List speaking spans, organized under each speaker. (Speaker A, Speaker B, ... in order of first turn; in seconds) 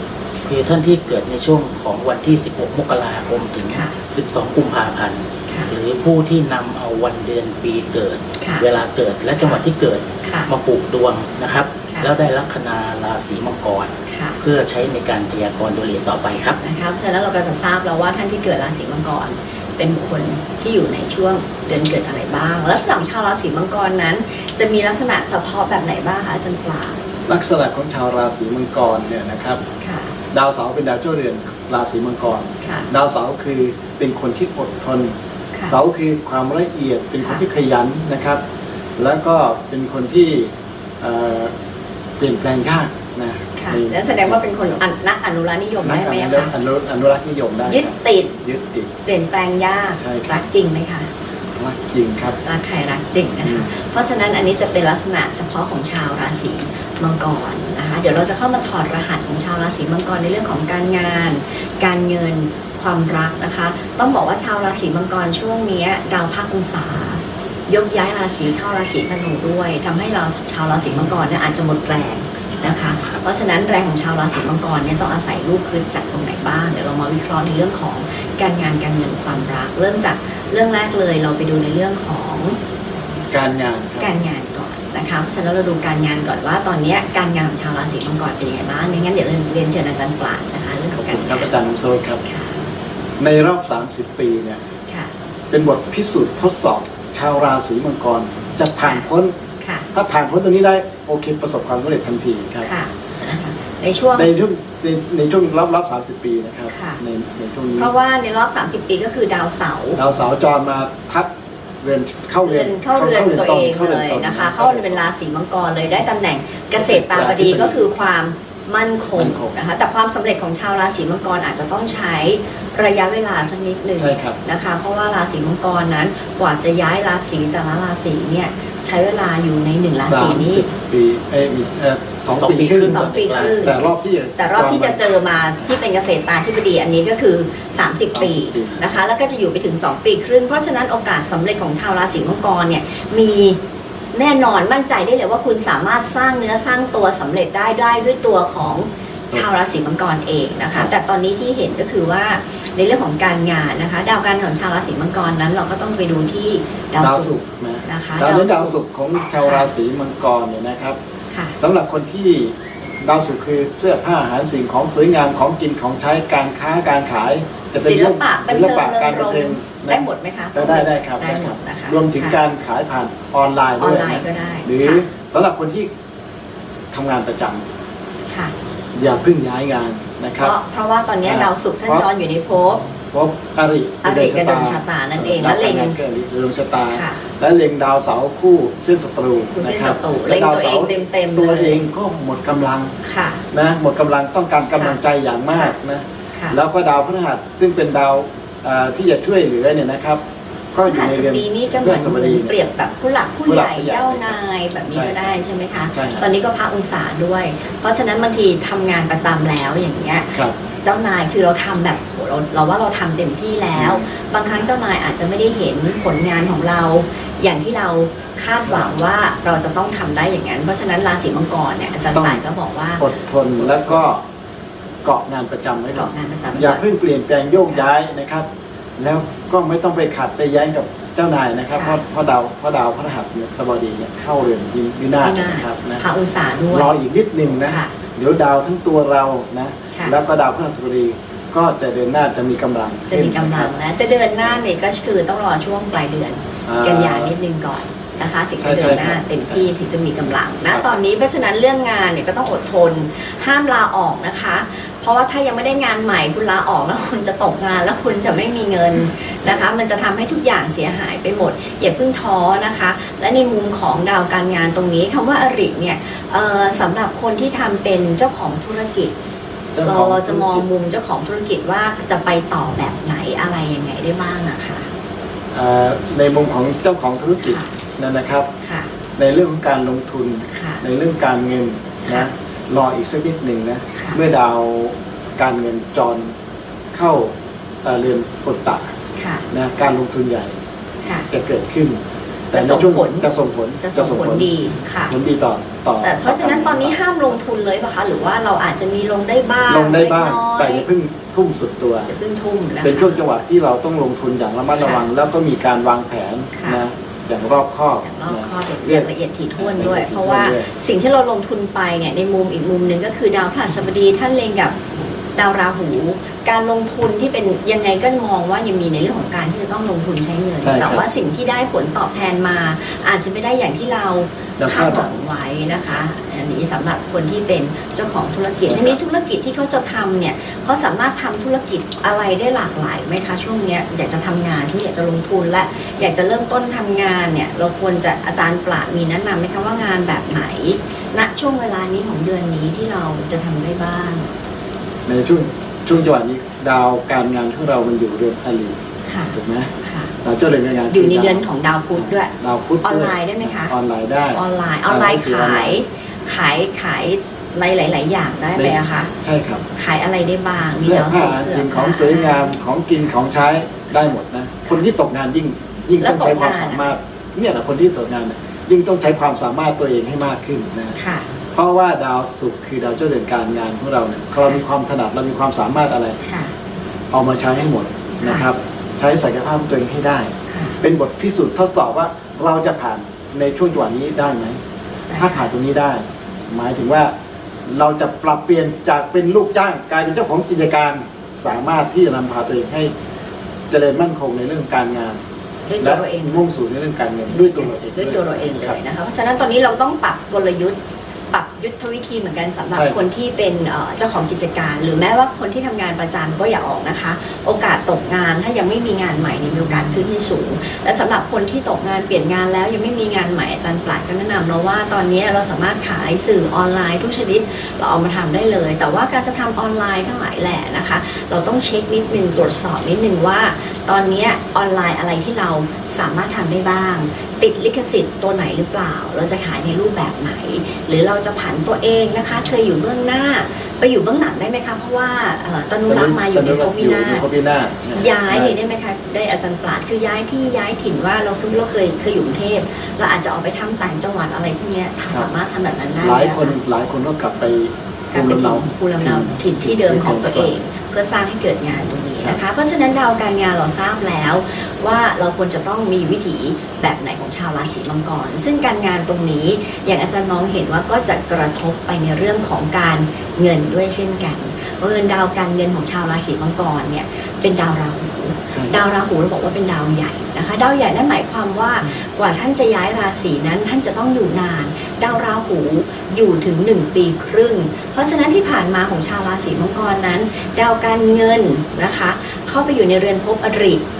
Speaker A: 0.4-16.6, 132.3-133.8
Speaker B: 3.7-3.9, 5.5-5.7, 8.4-8.7, 10.2-10.5, 14.1-14.4, 16.6-27.0, 29.8-30.1, 32.6-32.9, 43.6-46.5, 47.7-48.4, 49.0-51.1, 52.4-82.6, 84.0-91.5, 92.2-92.7, 98.8-99.1, 99.6-99.9, 102.7-104.3, 106.7-107.0, 107.8-110.0, 112.5-130.7, 132.8-133.7, 134.4-143.6, 144.1-158.8, 159.3-159.7, 161.3-161.6, 167.8-172.4, 173.8-175.1, 180.4-182.8, 184.0-186.0, 186.9-187.2, 189.5-191.8, 193.0-193.4, 200.9-223.0, 223.6-224.0, 225.9-226.8, 231.7-232.0, 235.2-236.9, 237.6-237.9, 239.9-240.2, 243.1-269.1, 269.8-274.9, 277.4-277.7, 278.6-278.9, 280.5-280.8, 282.0-282.3, 283.9-284.2, 289.1-289.5, 291.0-291.3, 292.5-293.3, 293.8-295.1, 296.0-300.9, 302.1-303.2, 304.8-305.1, 306.5-306.8, 308.0-314.8, 315.4-344.3, 349.1-350.1, 350.9-353.7, 354.4-359.1, 359.8-362.5, 366.0-366.9, 371.0-371.3, 376.2-376.6, 378.2-378.5, 380.5-380.8, 385.1-385.4, 395.7-396.4, 397.3-400.8, 401.3-437.2, 437.9-446.6, 448.1-483.8
Speaker C: 27.3-29.6, 30.3-35.1, 35.7-38.4, 39.0-41.5, 42.2-44.8, 45.8-48.9, 50.0-50.3, 51.5-52.4, 53.4-53.7, 83.3-84.1, 90.9-92.2, 93.2-94.6, 95.5-99.3, 99.9-102.7, 104.2-107.9, 110.0-111.3, 111.8-115.0, 116.8-117.9, 119.2-119.5, 124.0-124.4, 130.0-135.2, 138.1-139.0, 157.0-161.0, 161.6-175.9, 176.9-177.6, 178.9-180.6, 181.2-182.1, 183.1-192.9, 193.5-200.2, 200.7-202.6, 203.5-204.4, 204.9-205.3, 205.9-206.3, 213.7-214.1, 218.6-219.0, 222.1-222.4, 223.0-224.2, 225.0-236.0, 236.7-243.7, 246.7-247.3, 248.6-249.6, 269.7-270.7, 275.5-278.5, 279.2-286.3, 286.9-288.9, 289.5-290.6, 291.3-292.0, 292.5-294.5, 295.1-297.0, 299.7-302.1, 302.8-310.7, 320.6-321.0, 324.6-325.1, 328.7-329.0, 345.1-348.8, 349.3-351.4, 352.0-355.8, 358.6-359.6, 360.7-371.0, 371.6-376.2, 377.1-384.6, 385.1-387.1, 387.7-392.9, 393.7-395.2, 395.8-398.8, 402.7-403.1, 435.9-438.6, 446.0-450.6, 468.5-468.8